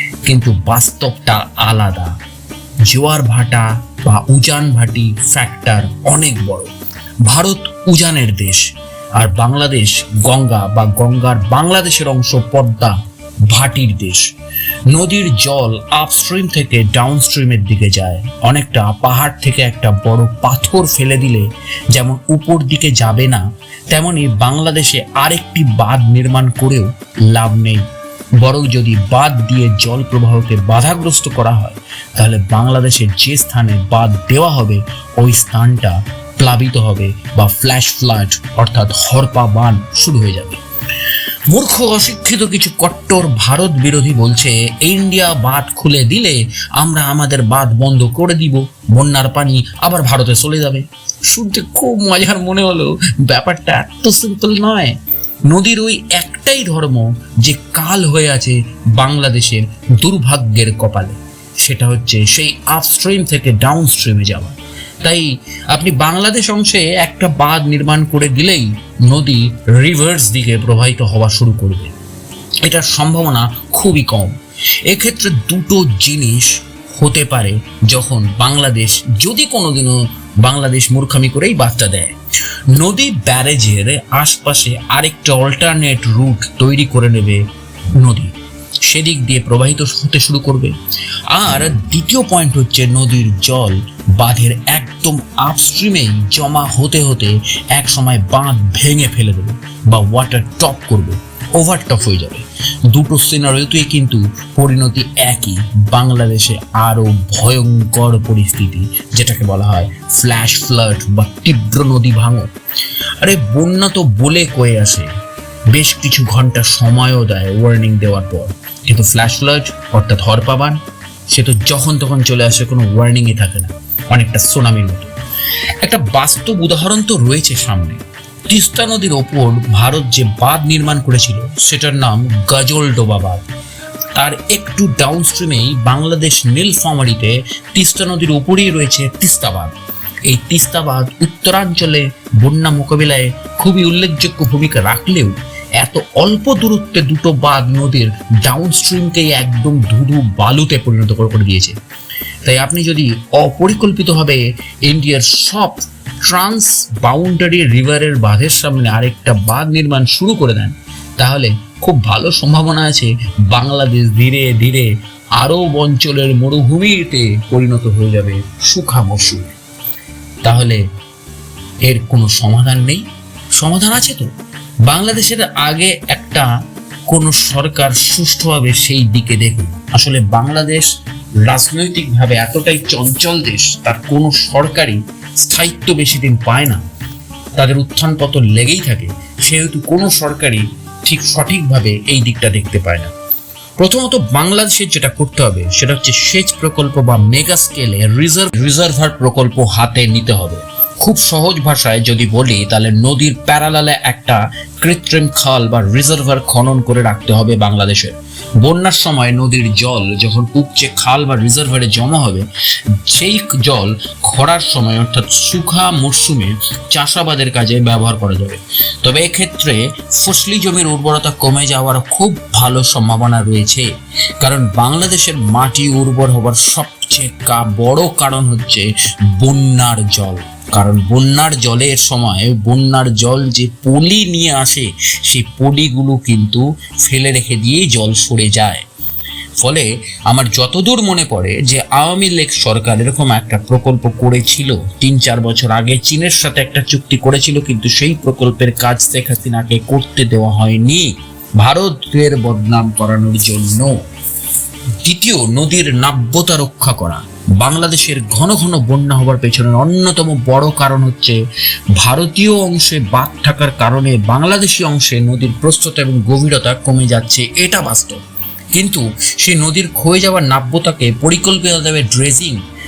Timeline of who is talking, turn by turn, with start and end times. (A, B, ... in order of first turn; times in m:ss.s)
0:00.2-0:02.2 A
0:02.8-0:06.7 A
0:07.2-0:13.0 A
0:13.5-0:14.3 A
0:14.9-0:27.8 A
0:28.4-0:40.6 A
0:41.5-1:11.9 A
1:12.6-1:22.2 A
1:22.7-1:30.8 A
1:31.3-1:52.5 A
1:53.2-1:55.1 A
1:55.7-2:00.8 A
2:01.3-2:05.1 A
2:05.8-2:13.5 A
2:14.2-2:31.8 A
2:32.4-2:49.6 A
2:50.4-2:50.8 A
2:51.8-2:54.3 A
2:54.8-2:56.5 A
2:57.1-3:00.9 A
3:01.4-3:06.8 A
3:07.6-3:13.1 A
3:13.8-3:32.5 A
3:33.0-3:43.9 A
3:44.4-3:58.9 A
3:59.6-4:14.0 A
4:15.0-4:21.4 A
4:22.0-4:28.2 A
4:28.7-4:32.6 A